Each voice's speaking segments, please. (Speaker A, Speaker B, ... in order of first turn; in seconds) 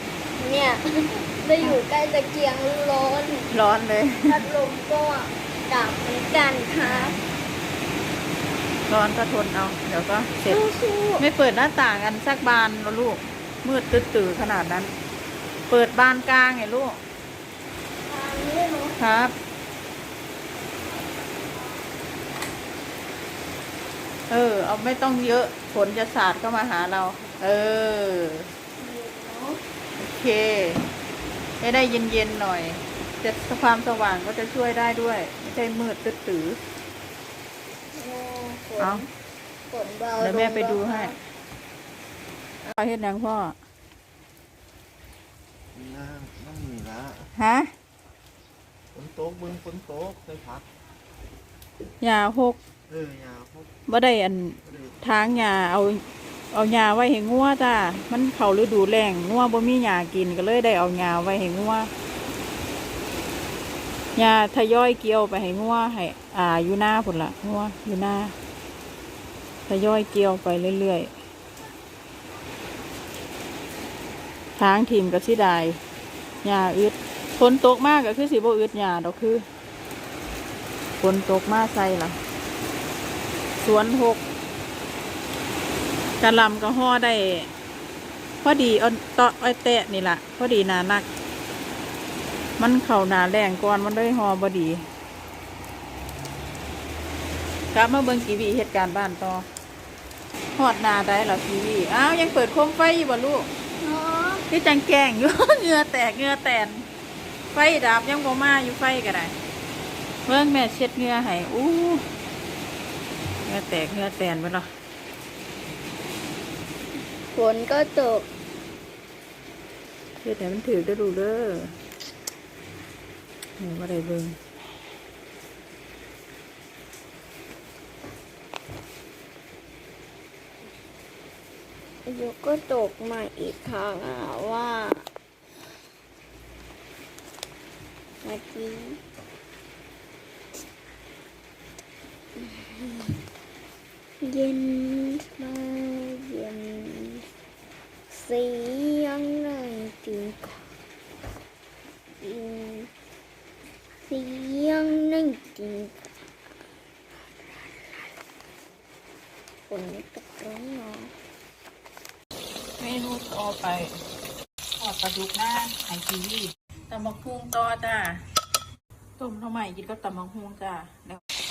Speaker A: 0.4-3.5, 4.2-7.2, 10.5-11.2, 18.1-19.0, 28.8-29.6, 38.0-39.1, 39.7-41.2, 103.8-104.5, 117.3-118.3, 132.1-135.1, 138.2-139.0, 142.4-143.2, 144.2-147.3, 148.1-150.6, 152.2-152.9, 154.0-156.1, 157.4-158.1, 159.7-161.1
Speaker B: 3.5-4.4, 6.8-7.3, 8.9-10.6, 11.2-14.9, 15.7-17.0, 19.0-19.4, 24.3-28.5, 30.0-30.8, 31.6-36.6, 38.8-39.0, 40.2-41.1, 42.7-43.6, 47.4-47.7, 52.0-52.6, 53.9-61.9, 64.2-68.3, 69.7-71.1, 74.6-75.8, 76.4-79.4, 81.0-82.2, 83.6-84.2, 86.2-87.5, 88.4-91.1, 92.6-94.8, 97.7-99.5, 100.6-103.5, 104.5-106.9, 107.5-109.3, 110.3-112.0, 113.5-114.7, 120.2-121.7, 123.6-124.4, 162.8-164.0, 164.8-168.2, 169.2-171.2
Speaker C: 45.8-47.3, 48.9-50.6, 52.9-53.7